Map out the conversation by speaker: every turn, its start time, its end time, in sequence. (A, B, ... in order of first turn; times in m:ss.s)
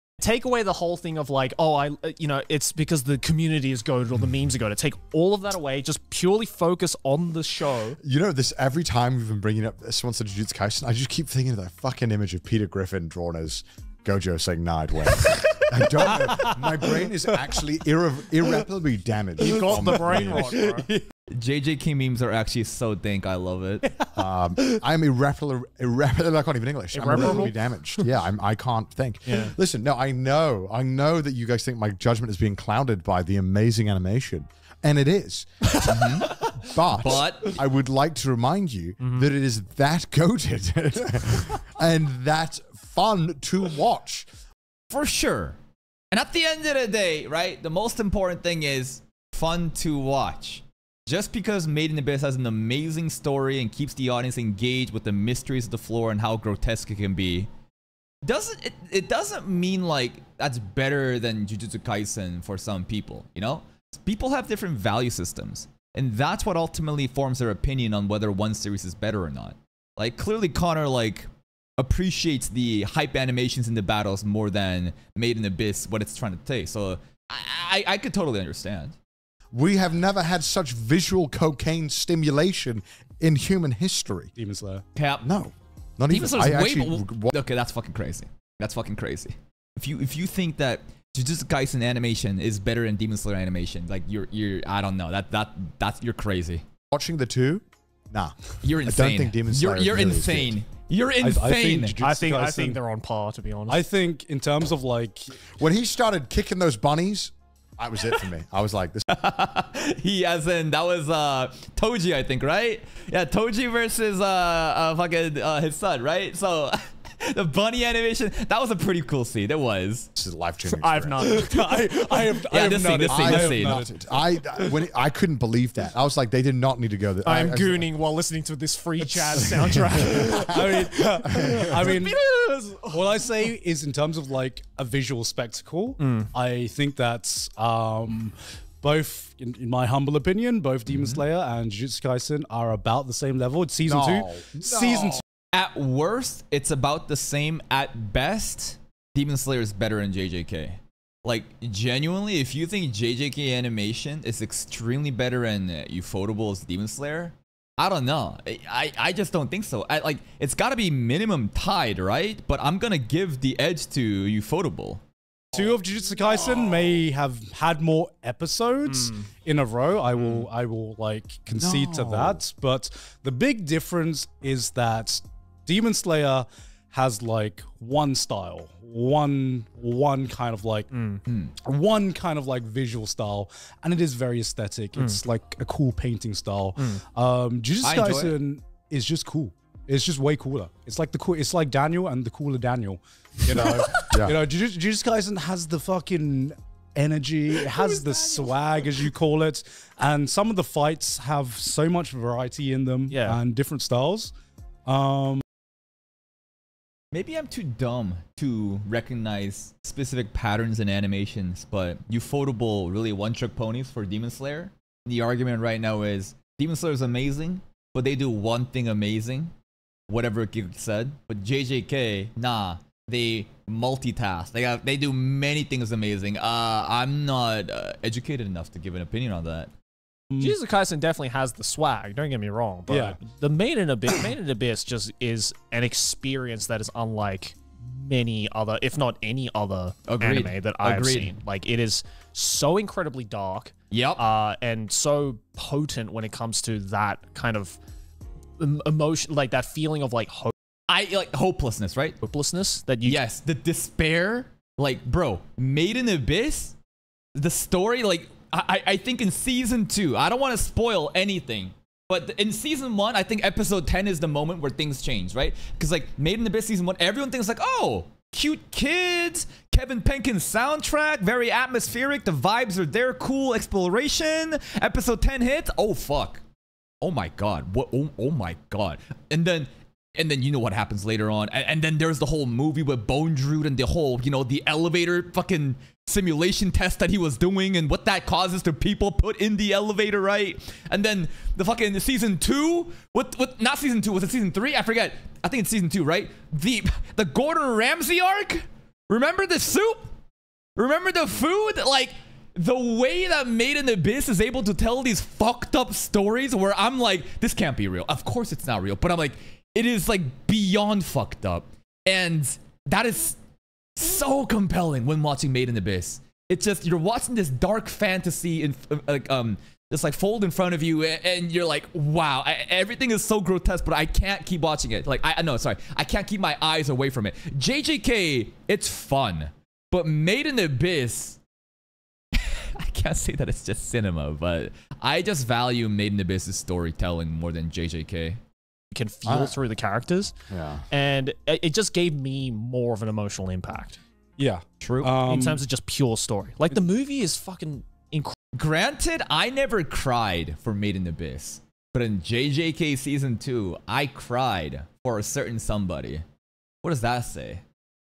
0:00.2-0:08.0 A
0:08.0-0:20.5 B
0:15.3-0:17.6 C
0:19.4-0:20.9 A
0:19.4-0:21.0 C
0:21.3-0:23.8 D
0:24.1-0:44.3 B
0:26.9-0:27.5 A
0:29.2-0:29.6 A
0:35.8-0:36.4 D
0:36.9-0:37.6 D
0:39.0-0:39.3 A
0:44.9-0:45.6 D
0:46.1-0:57.5 D
0:58.2-1:19.0 D
1:19.5-1:24.3 B
1:24.4-1:24.8 C
1:24.9-1:25.2 D
1:25.2-1:27.3 B
1:26.1-1:36.6 D
1:36.9-1:40.5 B
1:38.6-1:42.0 D
1:41.2-1:42.8 C
1:42.0-1:43.8 A
1:43.7-1:45.4 C
1:45.5-1:49.0 B
1:49.1-2:00.1 D
2:00.2-2:01.4 B
2:00.7-2:01.9 A
2:01.2-2:03.9 C
2:02.4-2:03.8 D
2:03.0-2:07.9 B
2:07.2-2:13.4 A
2:09.0-2:12.2 C
2:09.4-2:10.7 B
2:11.3-2:11.7 B
2:12.8-2:25.2 C
2:16.0-2:16.3 A
2:20.9-2:21.2 D
2:23.8-2:25.2 B
2:25.5-2:45.0 D
2:45.5-3:00.9 C
2:46.3-2:47.0 B
2:48.9-2:49.2 A
2:51.5-2:52.4 B
3:00.9-3:01.2 A
3:01.2-3:01.5 D
3:01.6-3:24.3 C
3:07.8-3:08.3 D
3:13.5-3:14.4 B
3:17.7-3:18.5 A
3:23.1-3:23.4 A
3:24.8-3:25.4 C
3:27.1-3:39.5 D
3:40.1-3:49.7 D
3:50.4-4:07.8 A
3:52.9-3:53.2 C
4:00.1-4:01.3 D
4:03.9-4:04.2 D
4:08.6-4:10.5 A
4:10.9-4:12.2 D
4:12.2-4:13.2 A
4:13.0-4:16.7 D
4:17.3-4:36.4 D
4:37.0-5:00.1 D
5:00.8-5:13.4 D
5:14.0-5:31.4 D
5:32.3-5:38.4 D
5:38.9-5:40.3 A
5:39.2-5:39.6 B
5:40.5-5:40.8 B
5:40.9-5:44.0 A
5:44.4-5:45.6 C
5:44.8-5:45.1 D
5:45.2-5:48.4 A
5:48.5-5:56.2 D
5:56.8-5:57.6 D